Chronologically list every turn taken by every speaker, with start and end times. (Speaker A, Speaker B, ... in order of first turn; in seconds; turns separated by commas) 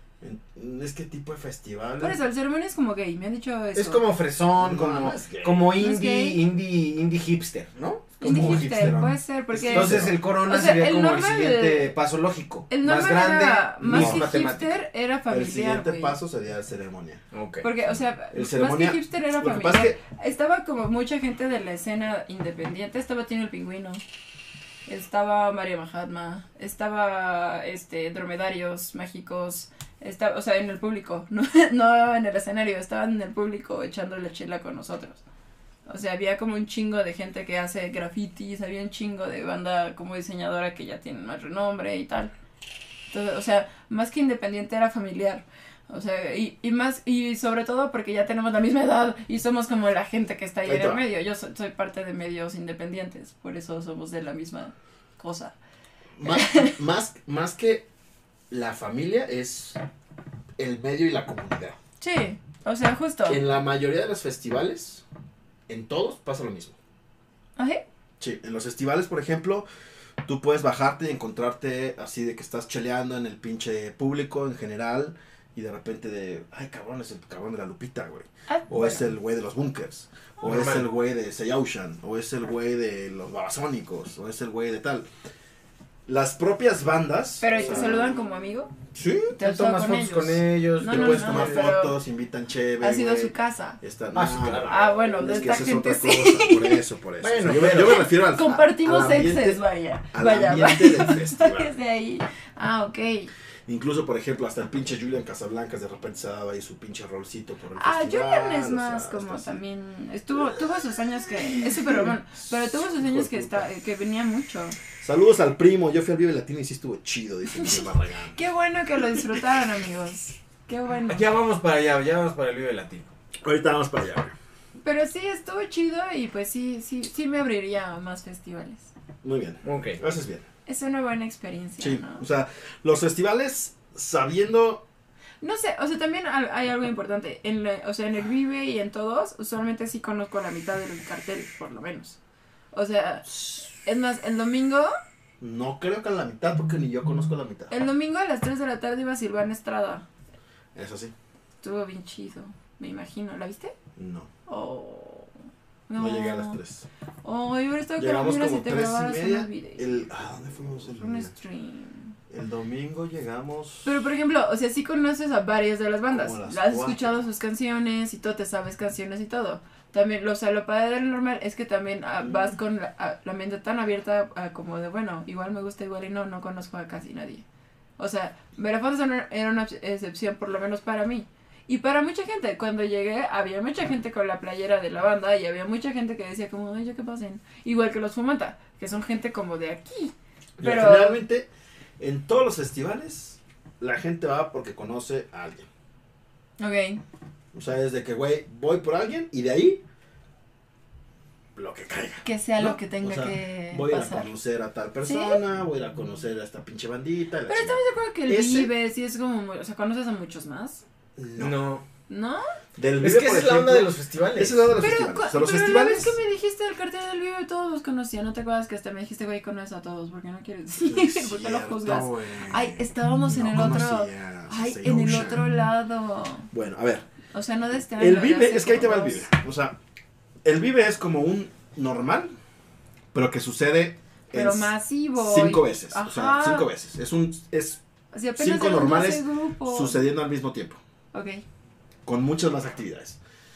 Speaker A: 0.2-2.2, Speaker B: 2.0-4.0, Speaker C: 3.8-8.9, Speaker A: 4.6-5.7, Speaker B: 5.8-6.4, Speaker B: 8.2-11.9, Speaker A: 8.2-10.2, Speaker C: 9.7-14.7, Speaker B: 12.7-16.2, Speaker A: 13.9-14.3, Speaker A: 15.3-17.2, Speaker C: 17.3-17.6, Speaker B: 17.6-24.0, Speaker A: 17.9-20.0, Speaker B: 24.9-35.2, Speaker B: 35.9-42.3, Speaker B: 43.1-55.5, Speaker A: 50.6-51.0, Speaker A: 56.2-57.9, Speaker B: 56.2-56.8, Speaker A: 58.5-59.8, Speaker A: 60.6-61.8, Speaker B: 62.0-63.4, Speaker A: 63.3-65.0, Speaker A: 65.7-66.8, Speaker B: 67.6-67.8, Speaker A: 68.2-69.7, Speaker A: 70.2-85.1, Speaker B: 78.5-79.0, Speaker C: 80.4-80.9, Speaker A: 86.1-88.2, Speaker B: 87.4-88.7, Speaker A: 88.9-89.3, Speaker B: 89.3-92.0, Speaker C: 89.4-91.7, Speaker A: 90.8-101.7, Speaker B: 92.8-93.8, Speaker C: 94.1-94.8, Speaker B: 94.7-96.8, Speaker C: 97.2-98.0, Speaker B: 97.6-103.3, Speaker A: 103.7-109.6, Speaker B: 107.8-114.8, Speaker A: 110.4-110.6, Speaker A: 111.7-113.7, Speaker A: 115.0-118.4, Speaker B: 117.5-121.2, Speaker C: 121.1-123.1, Speaker A: 123.4-124.3, Speaker B: 124.8-128.9, Speaker A: 129.2-130.5, Speaker C: 129.6-130.0, Speaker B: 130.7-132.2, Speaker A: 131.8-134.8, Speaker B: 135.4-142.2, Speaker B: 142.7-144.9, Speaker A: 145.4-147.7, Speaker B: 147.7-150.1, Speaker A: 150.8-151.1, Speaker B: 151.6-153.7, Speaker A: 154.0-154.3, Speaker B: 154.5-155.3, Speaker B: 155.9-156.6, Speaker A: 155.9-156.9, Speaker B: 157.2-160.1, Speaker A: 158.0-161.3, Speaker B: 160.8-162.2, Speaker A: 162.3-164.0, Speaker B: 163.8-177.4, Speaker A: 166.1-167.3, Speaker B: 178.0-191.2, Speaker A: 190.6-195.7, Speaker B: 196.6-197.0, Speaker A: 197.5-199.8, Speaker A: 201.6-208.7, Speaker B: 202.2-204.3, Speaker B: 205.0-205.4, Speaker B: 207.5-210.8, Speaker A: 211.2-211.6, Speaker C: 211.4-211.8, Speaker B: 212.1-212.4, Speaker A: 212.8-216.2, Speaker C: 213.0-214.8, Speaker B: 214.8-226.5, Speaker A: 220.8-225.4, Speaker A: 226.5-227.1, Speaker B: 227.3-229.3, Speaker A: 228.0-229.8, Speaker A: 230.4-232.3, Speaker A: 233.1-237.8, Speaker B: 234.3-236.7, Speaker B: 238.1-240.0, Speaker A: 238.4-240.8, Speaker B: 241.1-241.4, Speaker A: 242.1-243.2